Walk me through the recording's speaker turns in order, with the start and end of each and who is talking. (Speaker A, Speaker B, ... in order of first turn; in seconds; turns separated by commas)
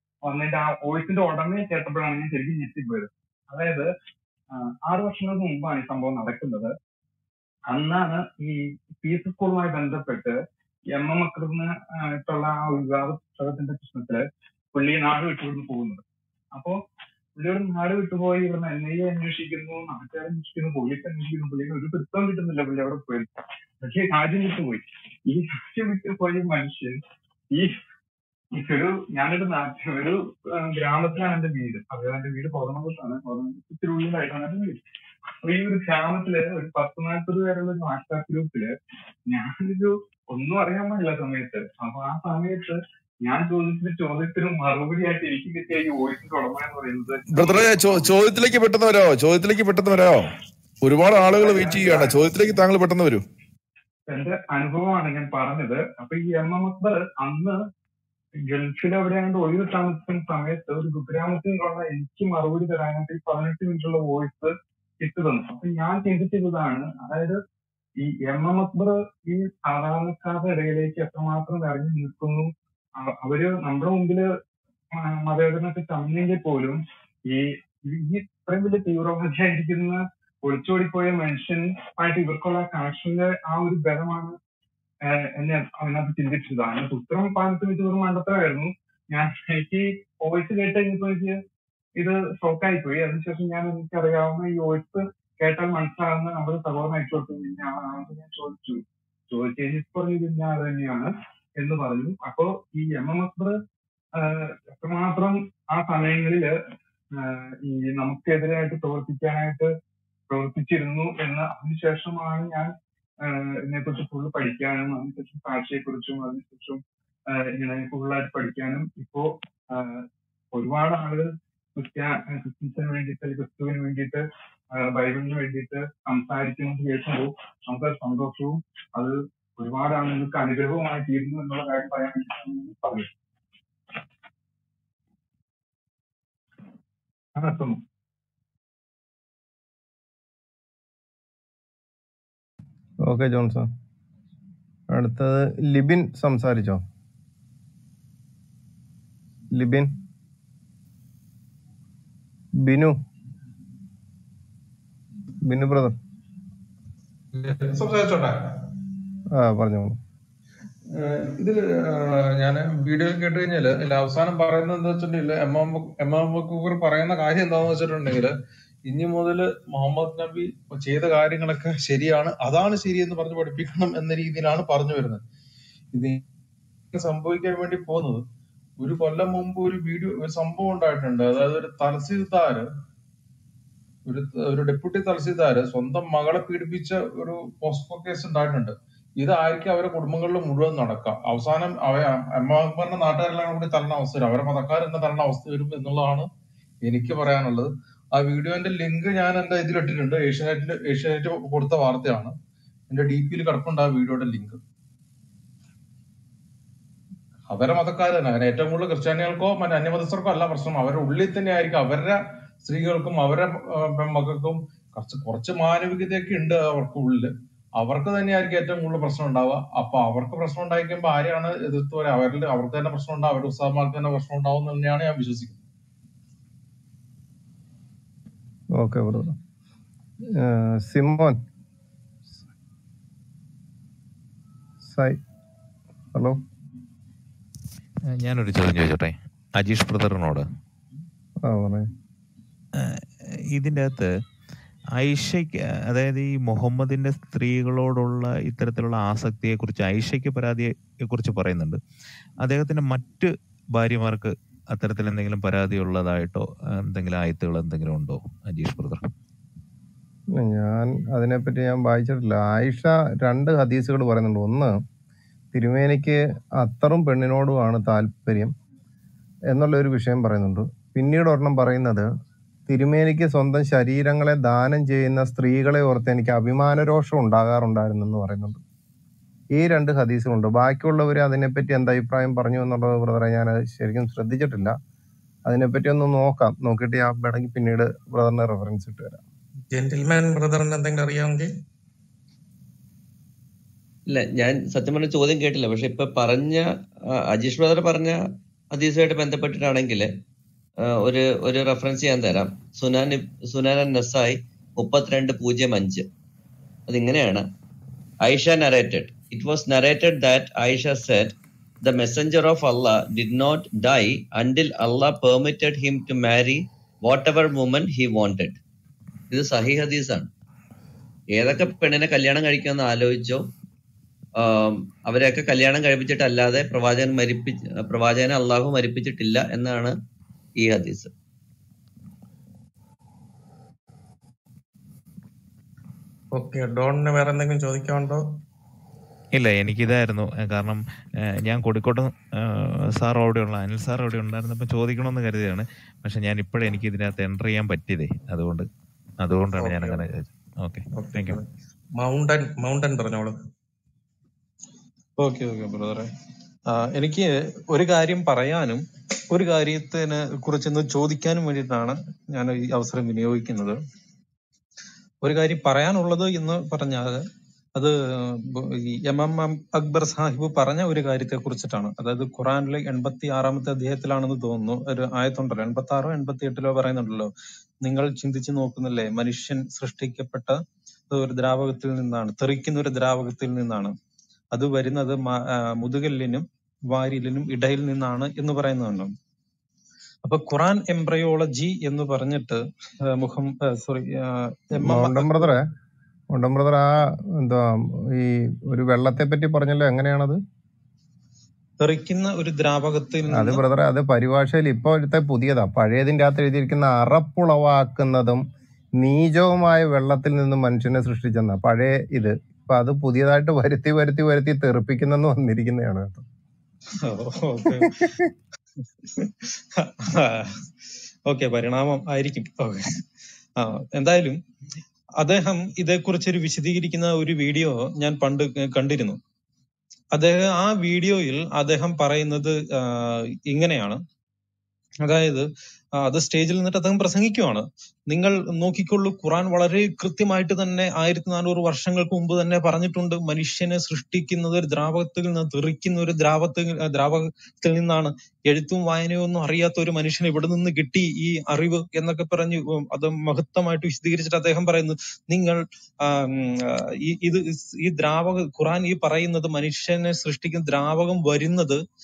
Speaker A: 0.2-3.9, Speaker A: 4.5-6.7, Speaker A: 7.7-10.3, Speaker A: 10.9-14.2, Speaker A: 14.7-16.8, Speaker A: 17.4-23.3, Speaker A: 23.8-27.0, Speaker A: 27.5-27.8, Speaker A: 28.5-34.8, Speaker A: 35.4-38.7, Speaker A: 39.3-47.6, Speaker B: 47.3-50.3, Speaker B: 50.8-53.2, Speaker A: 51.3-52.1, Speaker A: 54.1-57.6, Speaker A: 58.4-67.4, Speaker A: 68.0-74.3, Speaker A: 74.9-84.4, Speaker A: 85.0-91.4, Speaker A: 92.0-103.5, Speaker A: 104.2-106.5, Speaker A: 107.1-109.7, Speaker A: 110.3-112.7, Speaker A: 113.2-133.1, Speaker A: 137.3-137.8, Speaker C: 143.0-143.7, Speaker C: 144.9-146.8, Speaker C: 149.5-149.9, Speaker C: 152.6-153.0, Speaker C: 155.4-155.9, Speaker D: 157.3-158.5, Speaker C: 159.3-160.0, Speaker D: 160.9-168.3, Speaker D: 168.8-175.2, Speaker D: 175.9-176.2, Speaker D: 176.9-178.2, Speaker D: 178.8-182.7, Speaker D: 184.1-196.3, Speaker D: 196.8-202.3, Speaker D: 202.9-204.6, Speaker D: 207.5-225.6, Speaker C: 228.7-229.4, Speaker C: 230.3-231.4, Speaker C: 234.8-235.2, Speaker C: 236.1-236.4, Speaker E: 238.1-240.4, Speaker C: 241.4-241.9, Speaker E: 242.8-244.1, Speaker E: 245.0-251.8, Speaker E: 252.4-259.1, Speaker C: 260.4-264.8, Speaker C: 265.5-268.5, Speaker C: 269.5-272.1, Speaker C: 272.7-278.6, Speaker C: 279.5-284.8, Speaker C: 285.4-289.2, Speaker F: 289.7-291.5, Speaker G: 294.1-296.6, Speaker G: 297.3-298.2, Speaker G: 298.7-300.1, Speaker G: 300.8-306.1, Speaker G: 306.9-307.5, Speaker G: 308.2-318.6, Speaker G: 319.3-320.3, Speaker G: 321.4-323.5, Speaker G: 324.4-329.9, Speaker G: 330.6-331.1, Speaker F: 336.3-338.2, Speaker E: 339.3-340.8, Speaker E: 341.4-348.7, Speaker E: 349.2-351.4, Speaker F: 349.6-350.1, Speaker F: 351.0-351.4, Speaker F: 351.9-353.4, Speaker H: 355.2-356.1, Speaker H: 356.7-363.8, Speaker H: 365.2-367.2, Speaker H: 367.8-383.9, Speaker H: 384.5-389.1, Speaker H: 390.2-395.5, Speaker C: 394.8-395.6, Speaker C: 396.3-400.4, Speaker H: 401.8-403.6, Speaker C: 403.3-408.4, Speaker C: 409.0-416.2, Speaker H: 417.0-418.0, Speaker C: 417.7-418.3, Speaker H: 419.1-420.6, Speaker H: 421.2-423.0, Speaker H: 423.6-424.4, Speaker H: 425.2-429.2, Speaker H: 430.1-434.0, Speaker H: 435.0-461.8